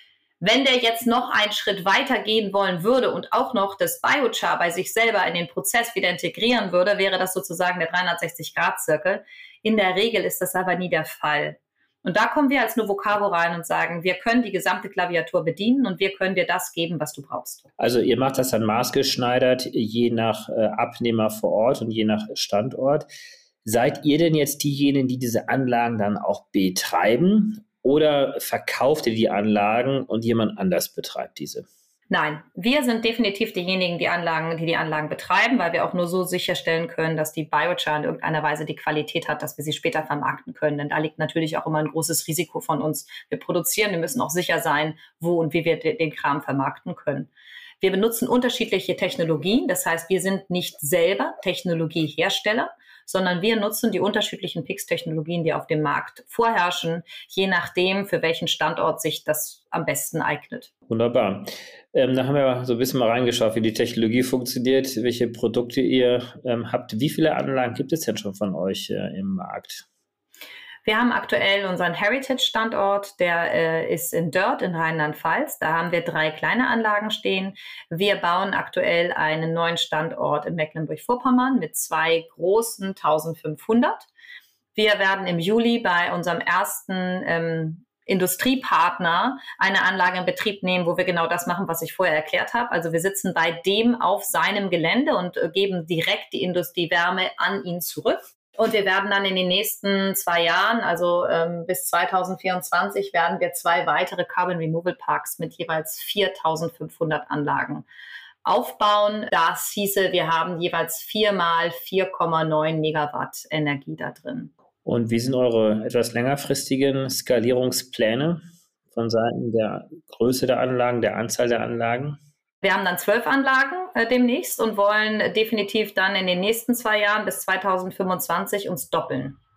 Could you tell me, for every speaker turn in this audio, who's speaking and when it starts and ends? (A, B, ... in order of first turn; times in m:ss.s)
0:00.4-0:17.7 A
0:17.8-0:23.1 B
0:23.6-0:31.7 B
0:32.1-0:47.3 A
0:47.8-1:00.7 A
1:00.9-1:09.8 B
1:10.8-1:24.1 A
1:24.7-1:47.8 A
1:48.4-1:54.5 A
1:54.8-1:58.4 B
1:58.9-2:02.2 B
2:02.6-2:09.4 A